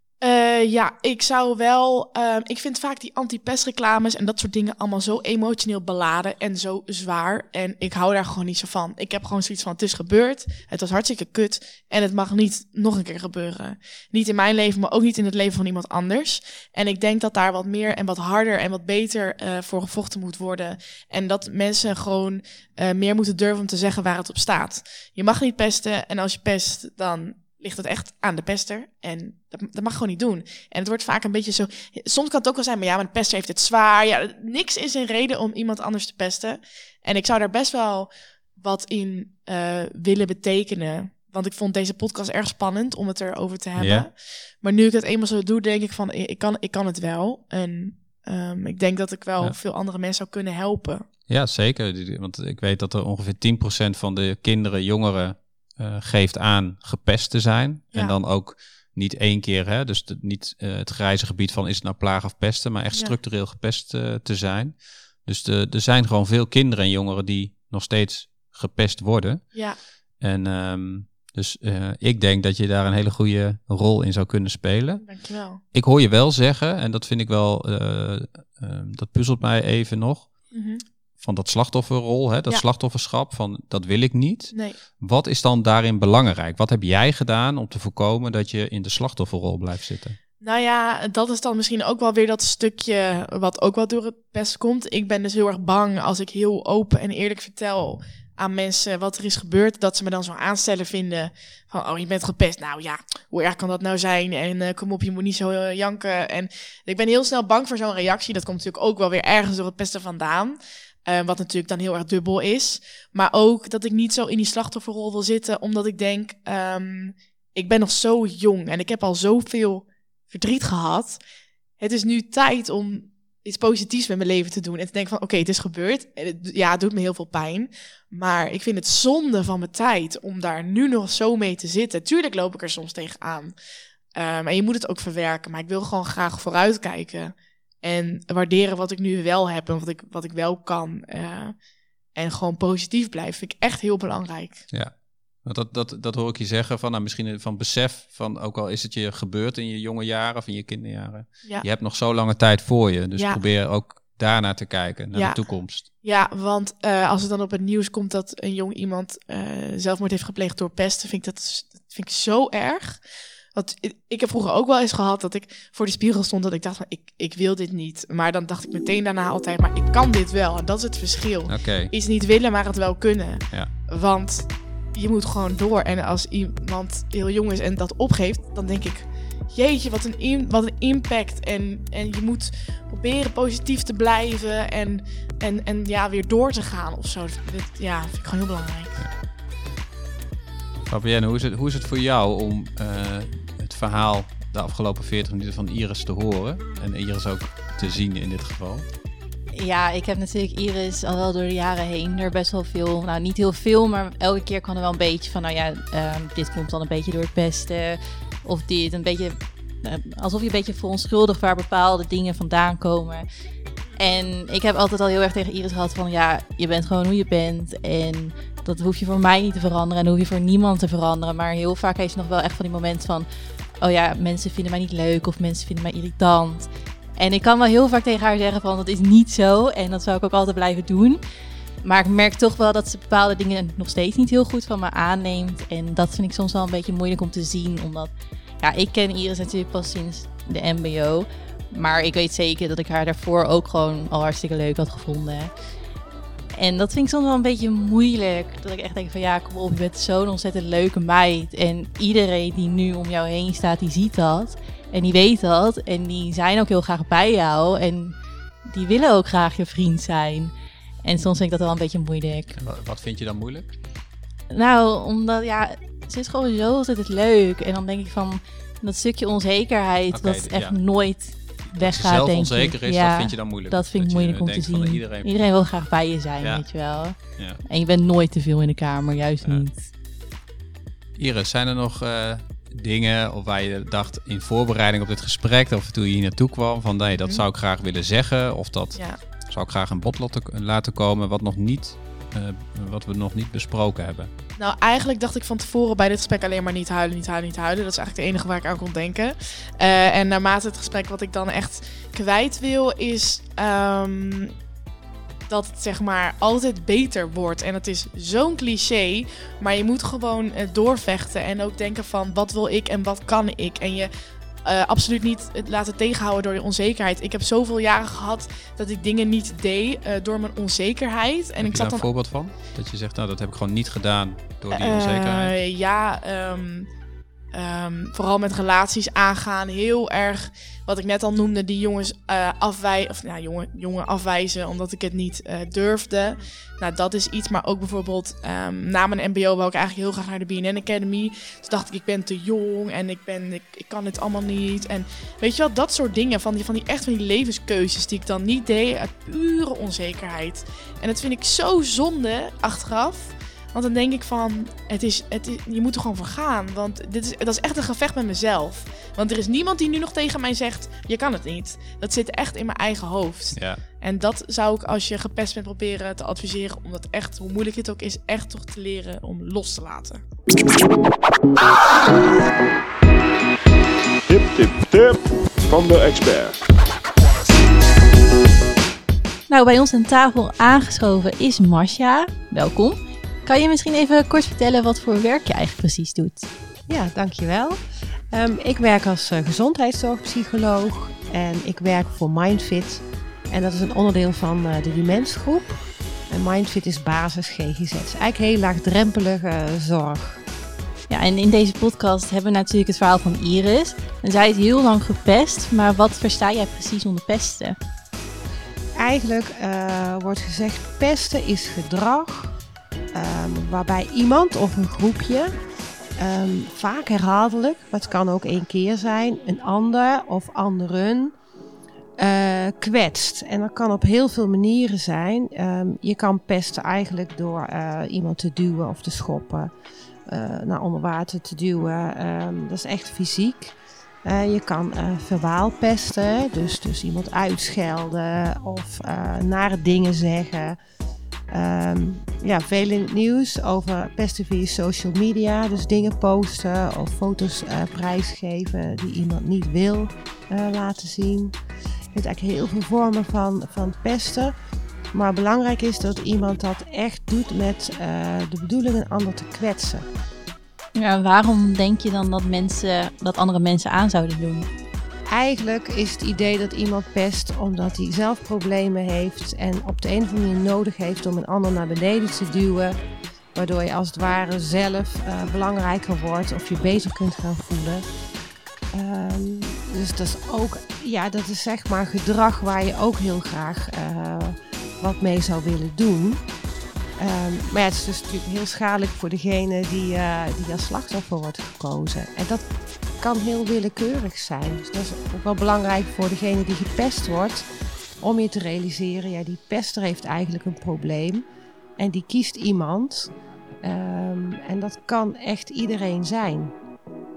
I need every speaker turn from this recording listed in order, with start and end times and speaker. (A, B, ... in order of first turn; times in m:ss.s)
0:00.2-0:51.0 A
0:43.8-0:44.1 B
0:51.3-1:09.5 B
1:10.2-1:15.0 B
1:15.0-1:15.6 A
1:15.7-1:20.3 B
1:20.5-1:20.8 A
1:21.2-1:30.2 B
1:30.4-2:01.2 A
2:01.8-2:13.5 A
2:14.1-2:21.5 A
2:22.1-2:24.6 A
2:25.4-2:35.8 B
2:35.1-2:35.4 A
2:36.0-2:43.0 A
2:43.5-3:09.0 A
2:51.5-2:51.9 B
3:10.8-3:18.8 B
3:19.5-3:33.2 C
3:34.0-3:43.3 C
3:43.8-3:51.2 C
3:51.8-4:05.5 C
4:06.5-4:20.5 C
4:21.0-4:22.6 C
4:22.5-4:23.7 B
4:24.5-4:39.8 C
4:30.1-4:30.8 B
4:31.6-4:35.3 B
4:41.2-4:49.0 B
4:49.5-4:54.3 B
4:54.6-5:04.5 A
5:05.5-5:14.1 A
5:14.6-5:22.1 A
5:21.6-5:25.5 B
5:24.7-5:26.9 A
5:27.5-6:10.2 A
6:03.5-6:03.8 B
6:14.3-6:16.6 D
6:19.5-6:26.5 C
6:26.9-6:40.4 E
6:41.1-6:47.8 C
6:49.0-6:52.5 E
6:53.1-6:55.6 E
6:56.2-7:01.4 E
7:02.2-7:09.7 E
7:10.3-7:20.8 E
7:21.5-7:31.5 E
7:32.1-7:34.5 E
7:35.1-7:40.0 E
7:41.0-7:44.7 C
7:45.3-7:53.0 E
7:53.5-7:58.1 E
7:58.9-8:06.4 E
8:07.2-8:12.6 E
8:13.2-8:17.7 E
8:18.2-8:21.4 E
8:22.0-8:23.3 E
8:23.8-8:26.7 E